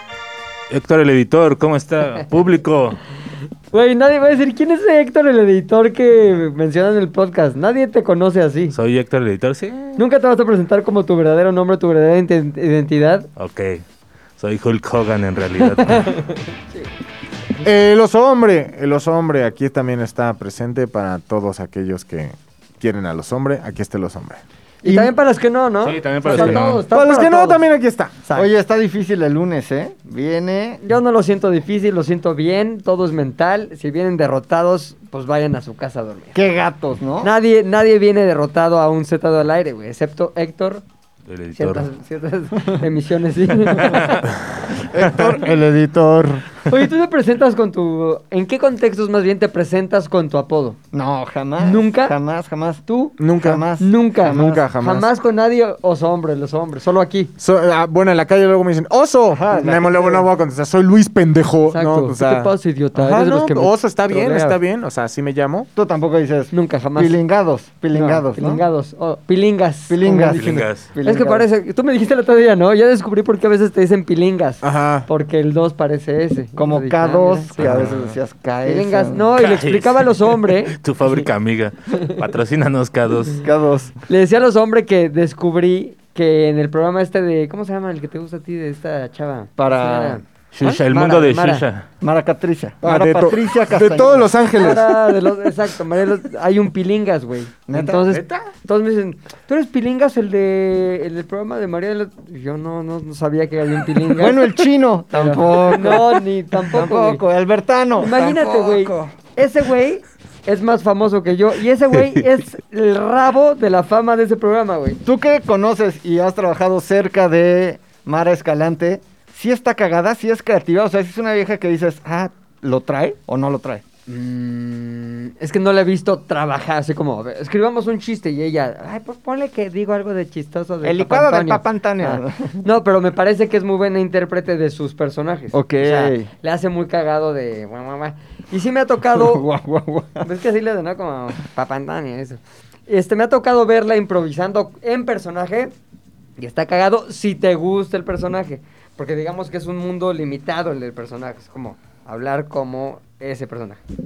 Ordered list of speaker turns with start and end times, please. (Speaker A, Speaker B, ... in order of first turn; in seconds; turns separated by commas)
Speaker A: 0.7-3.0, Speaker B: 3.7-8.8, Speaker A: 8.7-10.0, Speaker B: 10.0-13.3, Speaker A: 13.4-13.8, Speaker A: 14.4-16.2, Speaker B: 16.0-16.9, Speaker C: 17.6-24.4, Speaker B: 24.8-27.6, Speaker D: 24.8-25.1, Speaker A: 25.8-26.9, Speaker C: 26.3-28.1, Speaker B: 28.2-28.5, Speaker D: 28.4-30.8, Speaker B: 30.8-36.4, Speaker D: 36.3-37.3, Speaker B: 37.2-40.8, Speaker A: 41.3-41.9, Speaker B: 41.5-44.3, Speaker D: 43.9-44.1, Speaker A: 43.9-44.4, Speaker D: 44.7-46.5, Speaker B: 46.7-50.8, Speaker D: 50.9-54.6, Speaker B: 51.6-52.1, Speaker B: 52.9-53.1, Speaker C: 53.2-53.6, Speaker B: 53.8-57.3, Speaker C: 54.2-55.1, Speaker C: 57.4-65.7, Speaker D: 59.3-60.3, Speaker B: 61.7-64.6, Speaker D: 65.8-68.6, Speaker B: 66.5-67.2, Speaker B: 67.9-77.7, Speaker D: 69.9-71.5, Speaker A: 70.3-70.8, Speaker C: 74.6-75.1, Speaker D: 76.6-79.2, Speaker A: 77.6-78.2, Speaker B: 78.6-81.2, Speaker A: 79.4-83.5, Speaker B: 81.9-82.2, Speaker D: 83.4-83.9, Speaker B: 84.1-91.7, Speaker D: 89.6-90.2, Speaker A: 90.5-91.9, Speaker D: 92.0-94.3, Speaker C: 92.8-95.0, Speaker B: 94.6-107.2, Speaker D: 97.7-98.2, Speaker D: 104.2-109.2, Speaker B: 108.0-115.0, Speaker D: 115.0-123.8, Speaker B: 124.1-139.4, Speaker D: 130.8-132.6, Speaker D: 135.5-136.3, Speaker D: 139.1-140.3, Speaker B: 140.2-145.7, Speaker B: 146.4-153.8